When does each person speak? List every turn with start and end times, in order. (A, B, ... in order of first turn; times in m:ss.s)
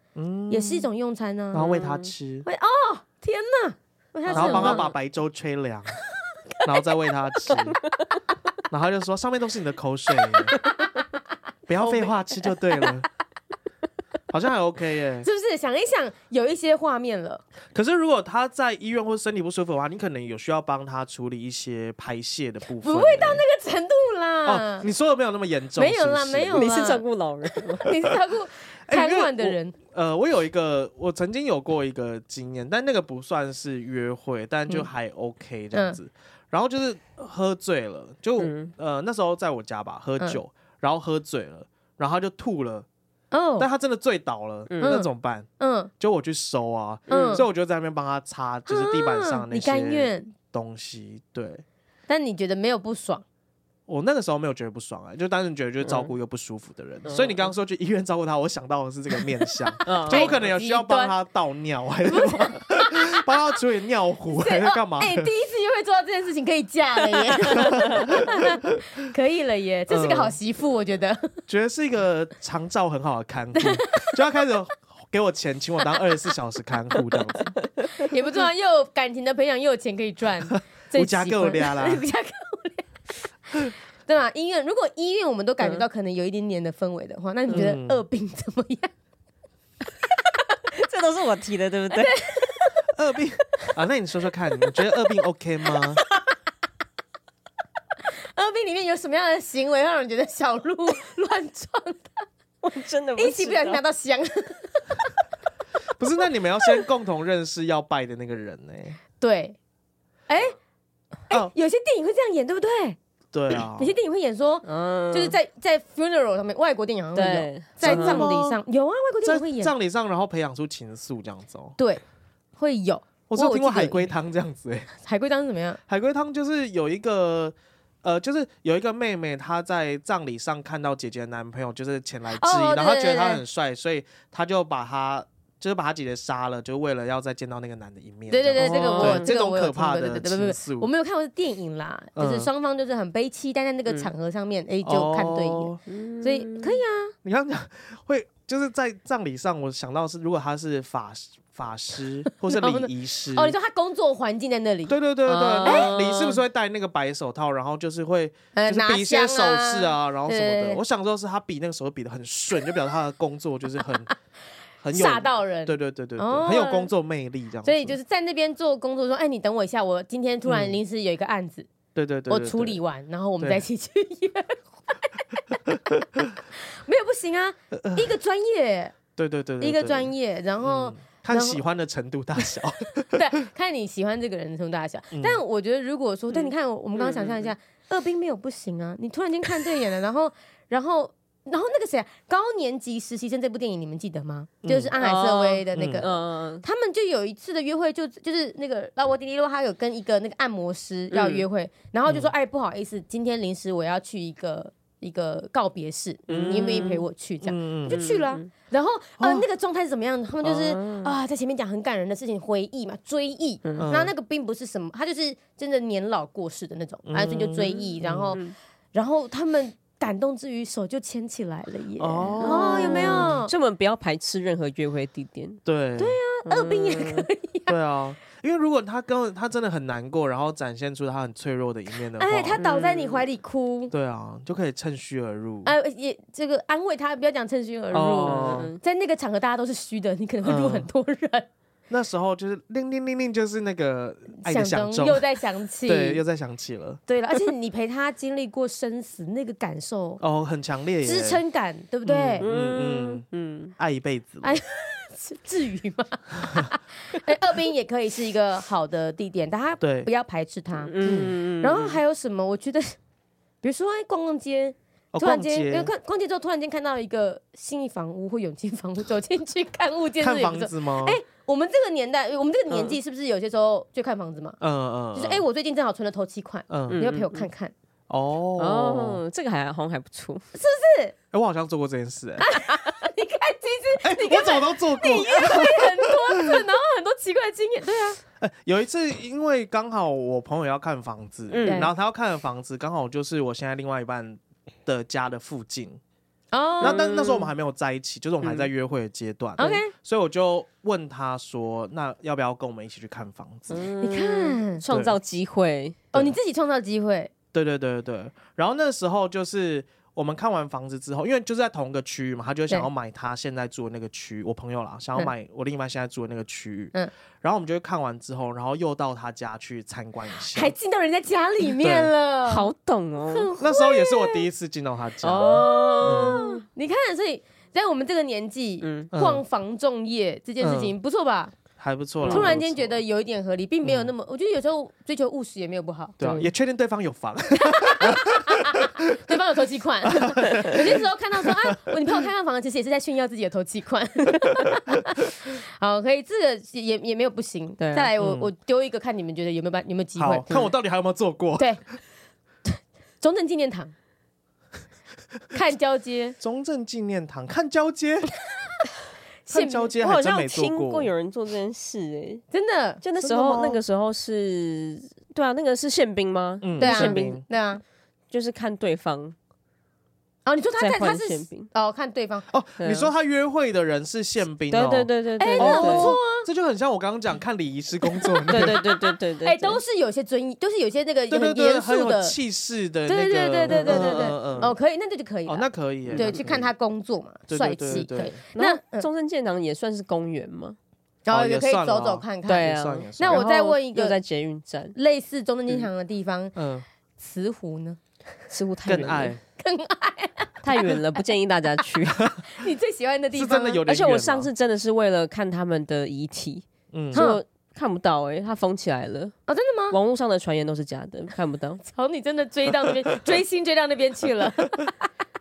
0:00.2-0:00.9 A
0:00.5-0:01.7 B
0:01.5-0:02.5 A
0:01.6-0:02.1 C
0:02.4-0:04.9 B
0:04.3-0:04.9 C
0:04.3-0:06.0 A
0:06.6-0:07.8 A
0:08.7-0:10.6 A
0:11.7-0:13.1 A
0:11.8-0:12.9 B
0:14.3-0:15.3 A
0:15.2-0:17.4 B
0:17.7-0:23.4 A
0:22.8-0:24.9 B
0:24.5-0:26.7 A
0:25.8-0:27.0 B
0:26.5-0:27.9 C
0:27.8-0:29.8 B
0:28.9-0:42.9 A
0:35.7-0:36.0 B
0:38.4-0:38.7 C
0:43.3-0:43.7 B
0:43.6-0:45.5 A
0:44.7-0:45.0 C
0:44.8-0:45.9 B
0:46.0-0:51.6 A
0:47.1-0:47.4 C
0:47.1-0:47.4 B
0:48.7-0:50.3 B
0:52.1-0:53.2 B
0:53.9-1:05.3 A
0:55.8-0:56.1 C
0:57.0-0:57.4 C
0:59.9-1:00.3 C
0:59.9-1:01.2 B
1:02.1-1:03.3 B
1:04.3-1:11.4 B
1:07.6-1:08.4 A
1:09.9-1:10.4 A
1:11.5-1:17.6 A
1:13.6-1:14.2 B
1:17.9-1:22.9 B
1:20.9-1:22.0 A
1:23.5-1:28.9 B
1:27.5-1:28.0 A
1:30.7-1:32.2 C
1:31.9-1:32.8 B
1:32.9-1:36.0 A
1:38.4-1:42.3 B
1:42.6-1:43.8 C
1:43.2-1:45.1 B
1:46.0-1:49.0 A
1:49.2-1:49.6 B
1:50.3-1:50.6 B
1:51.3-1:53.0 B
1:53.3-1:53.9 A
1:53.8-1:59.7 B
1:54.6-1:55.4 C
1:57.2-1:58.3 C
1:57.8-1:58.6 A
1:59.2-2:01.8 A
2:01.8-2:02.0 B
2:02.6-2:04.1 B
2:03.3-2:04.9 A
2:05.0-2:05.8 B
2:05.9-2:20.9 A
2:12.3-2:13.4 B
2:18.3-2:27.2 B
2:18.6-2:19.3 C
2:22.2-2:22.5 A
2:24.8-2:25.8 A
2:25.9-2:26.8 C
2:27.2-2:33.6 A
2:32.5-2:35.0 B
2:34.9-2:44.1 A
2:35.3-2:36.4 C
2:35.6-2:35.9 B
2:38.5-2:40.8 B
2:44.8-2:48.0 A
2:44.9-2:46.9 B
2:47.6-2:51.7 B
2:50.5-2:50.8 A
2:52.0-2:52.8 A
2:52.3-2:55.6 B
2:55.7-2:56.2 A
2:56.5-2:59.0 B
2:57.7-2:58.2 A
2:59.2-3:00.1 A
2:59.6-3:01.6 B
3:00.6-3:03.3 A
3:03.1-3:38.4 B
3:05.1-3:05.4 A
3:06.3-3:07.5 C
3:14.6-3:14.9 A
3:15.0-3:16.6 C
3:15.7-3:16.0 A
3:21.1-3:21.4 C
3:22.1-3:22.3 A
3:26.3-3:26.8 A
3:26.3-3:27.0 C
3:27.4-3:28.0 A
3:27.9-3:28.5 C
3:29.2-3:29.4 A
3:30.4-3:31.1 C
3:33.6-3:33.9 C
3:33.8-3:34.1 A
3:37.1-3:38.4 A
3:38.9-3:43.5 B
3:42.0-3:43.4 A
3:42.4-3:45.6 C
3:45.7-3:46.2 A
3:46.0-3:47.8 B
3:46.4-3:47.3 C
3:47.7-3:52.6 A
3:52.2-3:53.9 B
3:52.6-3:53.2 C
3:53.9-3:55.7 A
3:55.6-4:01.5 B
3:57.9-3:58.7 A
3:58.2-3:58.8 C
4:00.4-4:00.9 A
4:01.9-4:05.2 A
4:04.4-4:06.2 B
4:05.8-4:07.0 A
4:07.1-4:10.2 B
4:10.2-4:11.4 A
4:11.0-4:12.5 B
4:12.0-4:13.3 A
4:12.4-4:13.7 C
4:13.8-4:14.6 A
4:14.4-4:23.0 B
4:19.8-4:20.1 A
4:20.8-4:22.0 C
4:21.0-4:21.4 A
4:23.6-4:34.6 B
4:25.1-4:25.9 A
4:30.2-4:31.2 A
4:34.6-4:35.4 A
4:35.1-4:37.7 B
4:36.7-4:37.0 A
4:36.9-4:37.5 C
4:38.1-4:39.2 A
4:38.6-4:40.5 C
4:40.6-4:41.1 B
4:41.3-4:42.6 A
4:42.4-4:48.2 B
4:44.0-4:46.6 A
4:48.4-4:56.0 A
4:51.5-4:51.9 C
4:51.6-4:51.9 B
4:56.5-4:57.2 B
4:56.8-4:57.5 C
4:56.8-5:03.8 A
4:58.4-4:58.7 C
4:59.6-4:59.9 B
5:03.7-5:06.1 C
5:04.0-5:04.8 B
5:04.9-5:05.2 A
5:06.1-5:07.3 B
5:07.5-5:20.7 A
5:20.5-5:22.7 B
5:21.8-5:22.1 A
5:22.5-5:23.5 C
5:23.3-5:24.5 B
5:23.6-5:26.4 A
5:25.2-5:26.6 C
5:25.4-5:31.5 B
5:28.8-5:29.1 C
5:29.1-5:29.4 A
5:30.6-5:31.0 A
5:31.8-5:33.0 A
5:32.2-5:36.2 B
5:32.2-5:32.6 C
5:33.8-5:34.1 A
5:36.2-5:39.4 A
5:36.2-5:36.5 C
5:37.6-5:50.5 B
5:40.1-5:41.9 A
5:47.8-5:48.1 C
5:48.2-5:48.5 A
5:50.2-5:51.7 A
5:52.7-5:53.9 B
5:55.5-5:56.4 B
5:56.4-5:58.3 A
5:59.5-5:59.9 B
5:59.5-6:01.1 A
6:00.0-6:02.5 C
6:02.5-6:03.0 B
6:03.0-6:07.4 C
6:03.2-6:03.8 A
6:06.6-6:07.4 A
6:06.8-6:07.8 B
6:08.3-6:09.4 C
6:10.4-6:12.5 B
6:10.8-6:11.7 C
6:12.5-6:18.8 A
6:12.8-6:13.1 C
6:14.7-6:16.2 C
6:15.4-6:16.5 B
6:18.1-6:22.4 B
6:18.5-6:19.8 C
6:21.3-6:24.7 A
6:23.1-6:29.1 B
6:23.7-6:24.4 C
6:25.5-6:26.7 A
6:26.1-6:26.4 C
6:27.5-6:28.4 A
6:28.5-6:30.8 C
6:31.3-6:34.2 B
6:31.3-6:33.4 A
6:32.5-6:35.0 C
6:35.0-6:36.6 B
6:36.6-6:36.9 A
6:37.2-6:38.0 B
6:38.5-6:39.4 C
6:38.8-6:39.4 A
6:39.6-6:41.2 B
6:40.6-6:42.3 C
6:42.5-6:43.8 B
6:43.3-6:44.5 A
6:43.9-6:49.4 C
6:46.9-6:47.3 A
6:47.1-6:47.4 B
6:49.5-6:50.0 B
6:49.9-6:51.8 C
6:51.8-6:55.1 B
6:52.7-6:53.3 A